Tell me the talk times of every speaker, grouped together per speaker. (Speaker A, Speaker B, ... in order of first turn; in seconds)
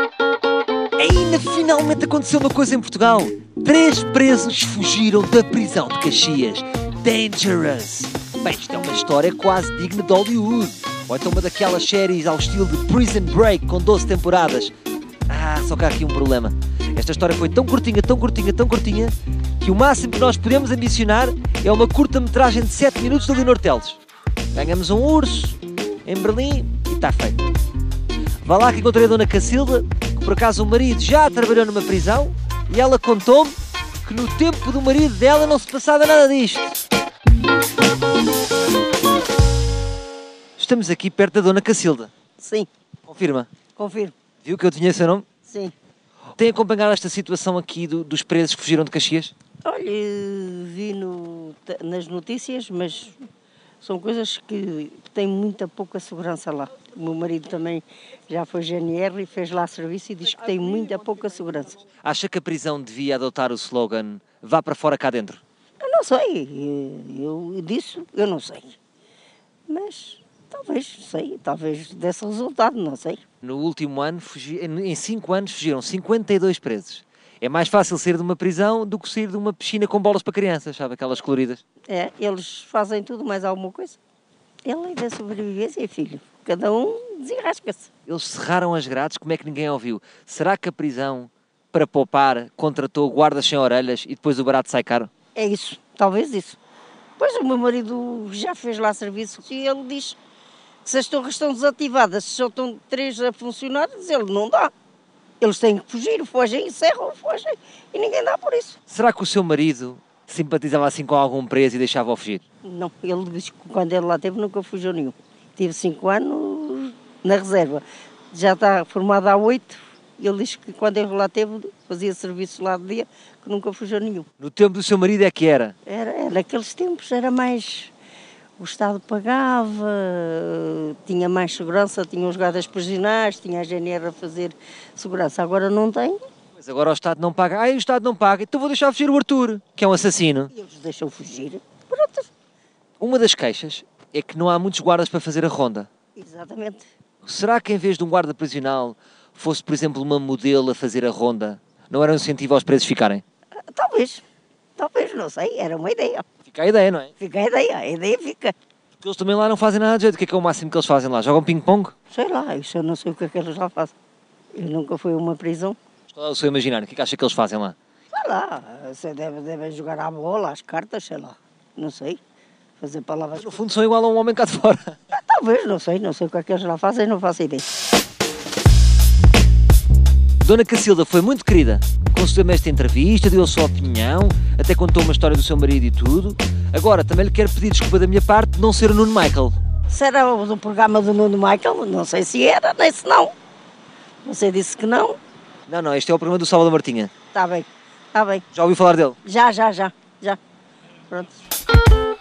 Speaker A: 1.0-14.7, 15.3-24.0, 24.5-27.4, 28.4-36.8, 40.6-42.1, 43.1-43.5, 44.4-45.2, 46.4-49.3, 62.0-65.4, 73.4-81.6, 88.1-95.1, 108.9-112.4, 124.4-125.7, 136.6-140.5, 143.0-145.9, 147.2-153.2, 156.5-157.1, 159.0-161.9, 166.1-167.8, 173.4-174.9, 180.4-189.5, 195.7-197.1, 198.5-199.2
Speaker B: 42.4-42.7, 43.8-44.1, 45.5-45.7, 49.6-53.3, 53.8-61.8, 65.8-68.8, 69.7-73.2, 81.9-84.0, 84.6-87.9, 95.3-96.6, 97.2-100.2, 100.8-104.7, 105.4-108.8, 112.6-124.3, 125.9-127.9, 128.6-136.2, 140.5-142.3, 146.2-146.9, 153.7-154.2, 154.8-156.3, 157.2-158.6, 162.1-163.9, 164.5-165.8, 168.1-172.2, 172.8-173.6, 175.1-177.7, 189.9-193.3, 194.2-195.2, 197.3-198.4, 199.2-200.4, 201.1-201.4